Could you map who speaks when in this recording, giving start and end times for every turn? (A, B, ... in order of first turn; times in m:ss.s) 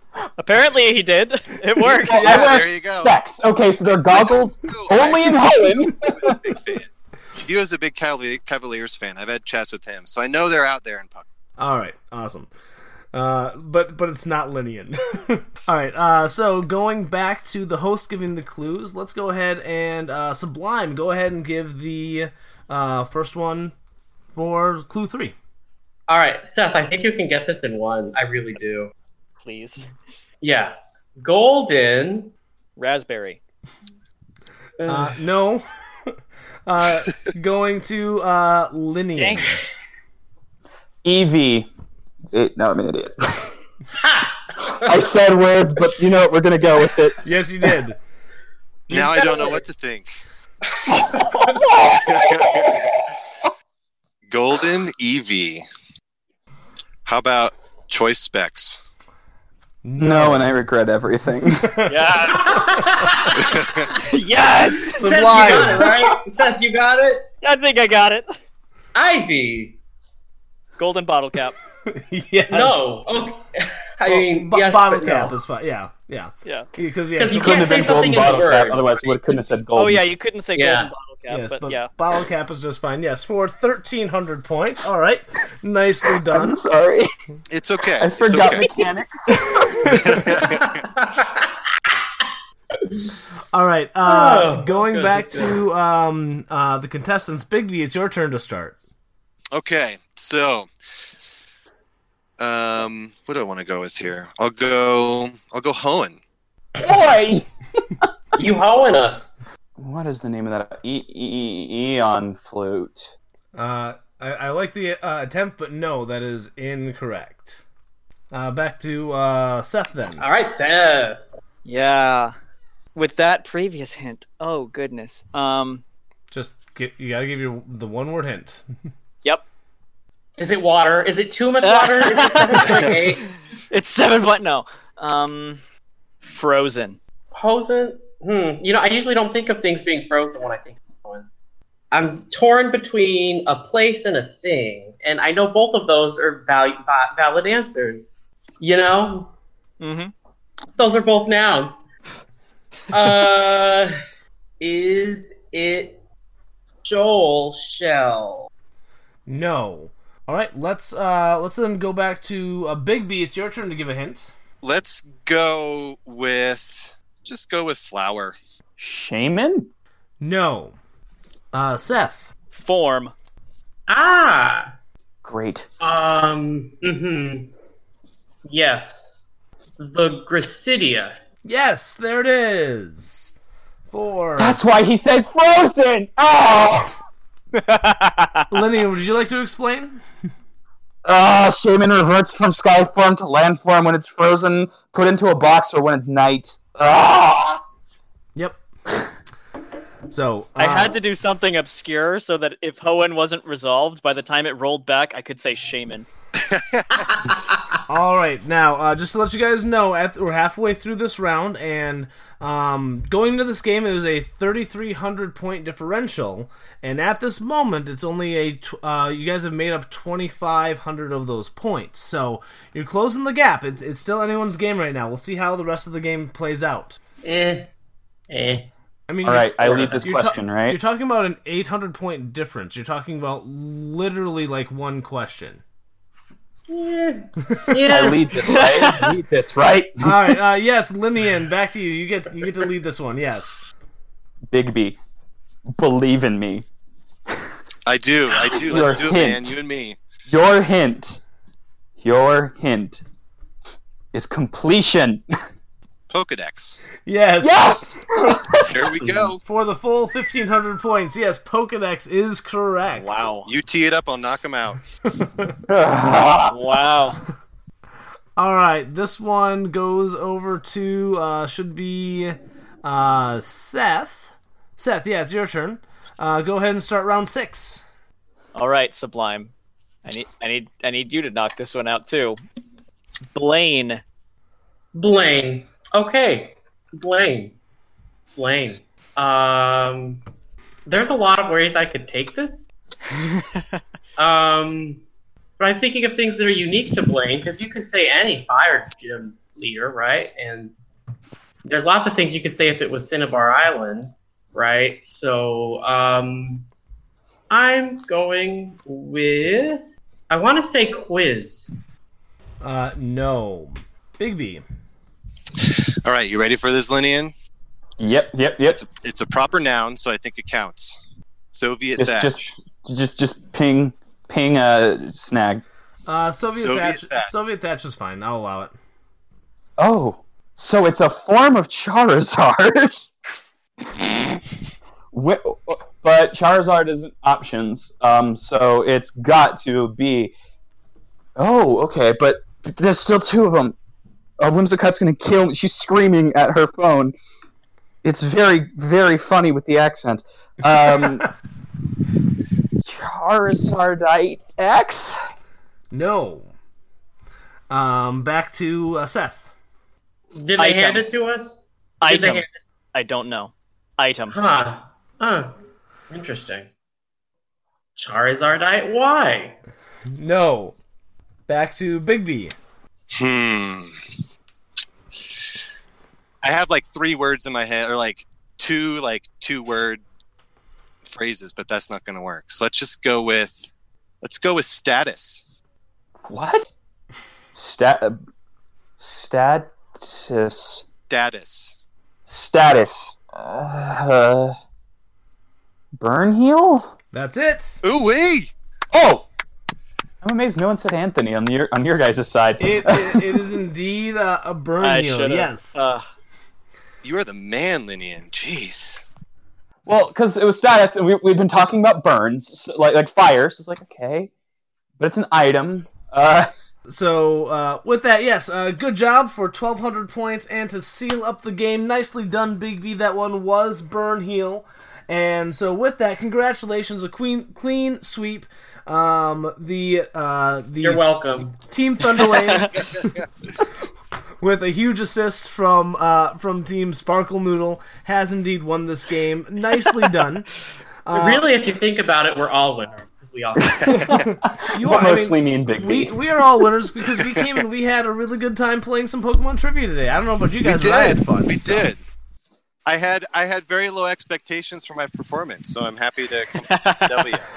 0:00.4-0:02.5 A
0:02.0-0:06.4 B
0:02.1-0:03.1 C
0:04.1-0:11.2 C
0:11.6-0:12.5 D
0:13.1-0:23.7 D
0:24.3-0:25.4 D
0:26.1-0:28.9 E
0:29.4-0:29.9 A
0:30.4-0:32.3 E
0:32.8-0:33.4 A
0:34.8-0:35.2 E
0:34.9-0:35.7 D
0:36.7-0:39.6 D
0:39.2-0:39.6 A
0:41.0-0:41.7 B
0:42.3-0:43.5 B
0:44.0-0:45.1 E
0:44.8-0:47.2 B
0:47.2-0:48.0 D
0:48.9-0:50.2 C
0:48.9-0:49.6 E
0:51.3-0:51.6 E
0:51.7-0:52.7 B
0:52.0-0:52.8 C
0:54.3-0:55.6 C
0:57.1-0:58.8 C
0:59.8-1:00.6 D
1:00.0-1:01.8 B
1:01.6-1:01.9 D
1:01.9-1:02.8 A
1:02.3-1:03.4 E
1:03.5-1:03.9 C
1:04.0-1:05.8 A
1:04.9-1:07.2 E
1:05.0-1:05.9 D
1:07.4-1:08.3 A
1:09.0-1:09.8 E
1:10.8-1:11.6 A
1:11.9-1:13.0 D
1:12.5-1:15.4 E
1:14.1-1:17.9 D
1:17.2-1:19.2 E
1:17.4-1:20.0 B
1:19.8-1:21.9 A
1:20.6-1:20.9 E
1:21.3-1:26.6 D
1:26.3-1:27.1 B
1:27.5-1:28.7 C
1:28.0-1:29.7 B
1:29.8-1:30.2 D
1:30.0-1:30.6 C
1:30.6-1:31.5 E
1:33.5-1:38.8 D
1:34.0-1:35.6 E
1:39.5-1:40.7 C
1:42.4-1:46.2 C
1:46.8-1:47.5 B
1:48.4-1:49.3 E
1:49.8-1:53.1 B
1:53.6-1:57.6 D
1:58.3-2:00.2 D
2:00.2-2:01.2 E
2:01.6-2:02.3 A
2:03.0-2:05.8 A
2:06.3-2:08.6 D
2:10.4-2:13.2 E
2:11.6-2:13.1 A
2:13.7-2:15.6 A
2:16.2-2:17.0 A
2:17.3-2:21.3 E
2:21.9-2:29.3 E
2:29.8-2:30.1 A
2:30.8-2:31.8 E
2:32.9-2:33.9 E
2:34.6-2:36.0 E
2:36.8-2:38.5 E
2:39.3-2:44.3 D
2:44.6-2:48.4 C
2:48.8-2:49.7 B
2:50.2-2:50.8 D
2:51.5-2:52.3 D
2:52.5-2:53.1 A
2:53.9-2:54.7 E
2:55.2-2:55.7 B
2:55.8-2:57.5 E
2:58.5-2:59.2 E
2:59.8-3:01.2 E
3:01.4-3:03.4 D
3:03.9-3:04.6 D
3:04.4-3:07.0 B
3:07.6-3:08.4 A
3:08.5-3:10.0 D
3:11.0-3:17.6 B
3:20.1-3:21.0 D
3:20.6-3:26.1 A
3:26.5-3:26.8 C
3:27.9-3:47.0 D
3:47.2-3:47.7 E
3:48.3-3:48.7 E
3:49.1-3:55.6 D
3:49.2-3:50.8 B
3:49.6-3:50.2 E
3:56.7-3:58.7 E
3:57.9-4:00.4 B
3:58.5-3:59.1 A
4:00.0-4:03.7 D
4:04.5-4:05.0 B
4:05.8-4:06.7 B
4:07.9-4:10.0 C
4:08.5-4:09.6 B
4:10.3-4:11.2 B
4:12.0-4:13.0 B
4:14.1-4:15.2 B
4:16.1-4:16.8 C
4:17.1-4:17.8 D
4:17.4-4:19.0 B
4:18.7-4:19.4 C
4:19.4-4:23.2 D
4:23.0-4:23.5 A
4:23.4-4:24.8 C
4:25.2-4:25.5 D
4:25.7-4:26.6 B
4:26.5-4:27.2 A
4:28.4-4:37.8 D
4:38.6-4:39.5 A
4:40.0-4:42.4 A
4:43.3-4:44.0 A
4:45.0-4:47.6 E
4:48.4-4:50.2 E
4:50.9-4:52.7 E
4:53.2-4:53.8 A
4:54.2-4:55.0 E
4:55.6-5:00.7 E
5:01.7-5:06.7 E
5:07.5-5:11.7 E
5:12.6-5:14.6 D
5:15.6-5:17.3 C
5:18.0-5:18.8 B
5:18.7-5:21.0 C
5:21.5-5:22.5 C
5:22.0-5:25.6 B
5:26.1-5:28.7 D
5:26.5-5:27.3 C
5:29.8-5:33.1 B
5:35.1-5:40.3 B
5:41.4-5:43.8 B
5:44.4-5:47.2 B
5:48.0-5:51.3 B
5:52.8-5:55.2 B
5:55.9-5:56.5 D
5:57.7-5:59.5 D
6:00.3-6:02.5 E
6:00.6-6:01.1 A
6:02.0-6:04.4 A
6:04.3-6:05.6 E
6:06.1-6:06.7 E
6:08.0-6:09.6 E
6:10.2-6:10.8 D
6:11.5-6:12.6 D
6:13.1-6:14.0 C
6:16.4-6:20.0 C
6:21.1-6:23.7 C
6:24.2-6:25.4 C
6:26.3-6:26.7 B
6:27.5-6:28.2 B
6:29.0-6:30.8 B
6:31.1-6:31.7 C
6:32.3-6:34.6 B
6:36.0-6:36.9 B
6:37.1-6:37.8 D
6:37.8-6:38.5 C
6:38.9-6:39.3 B
6:40.2-6:43.3 B
6:42.6-6:45.9 D
6:44.8-6:46.0 A
6:47.0-6:49.0 C
6:49.9-6:54.3 B
6:55.0-6:56.5 B
6:56.9-7:12.7 D
7:10.8-7:11.6 E
7:12.8-7:13.3 C
7:14.4-7:20.5 D
7:21.1-7:21.5 D
7:21.1-7:24.0 E
7:23.8-7:24.2 C
7:23.9-7:31.9 D
7:24.7-7:26.2 B
7:30.6-7:32.0 C
7:32.9-7:37.5 C
7:36.7-7:37.3 A